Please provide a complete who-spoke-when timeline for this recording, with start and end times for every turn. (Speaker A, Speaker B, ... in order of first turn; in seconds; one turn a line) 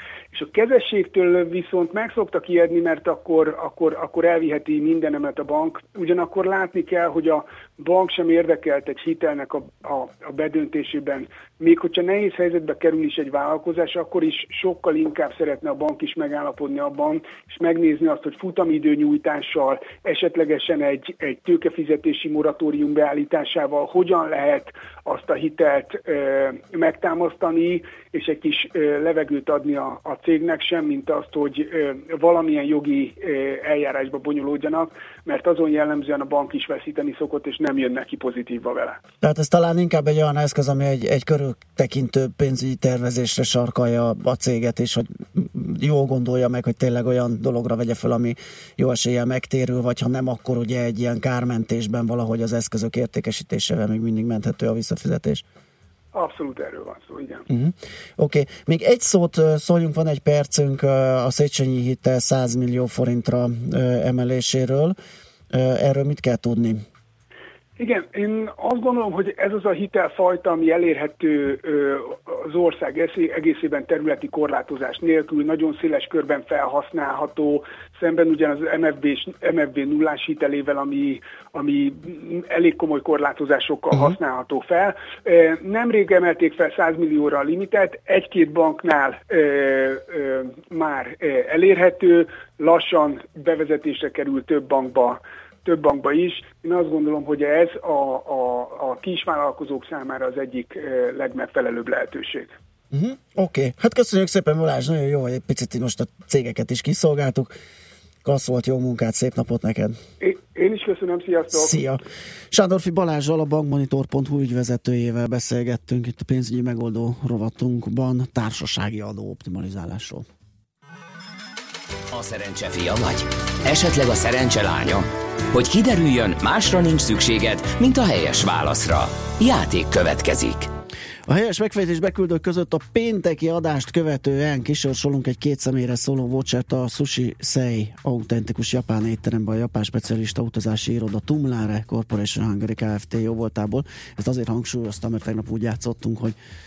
Speaker A: 0.3-39.0
Speaker B: 39.2-55.4
Speaker A: 56.1-57.5
Speaker B: 57.5-65.0
Speaker B: 65.5-66.8
Speaker A: 67.8-102.5
Speaker B: 102.9-107.5
Speaker B: 108.2-110.0
Speaker A: 110.2-111.8
Speaker B: 111.5-120.3
Speaker C: 122.1-130.7
Speaker B: 131.3-146.4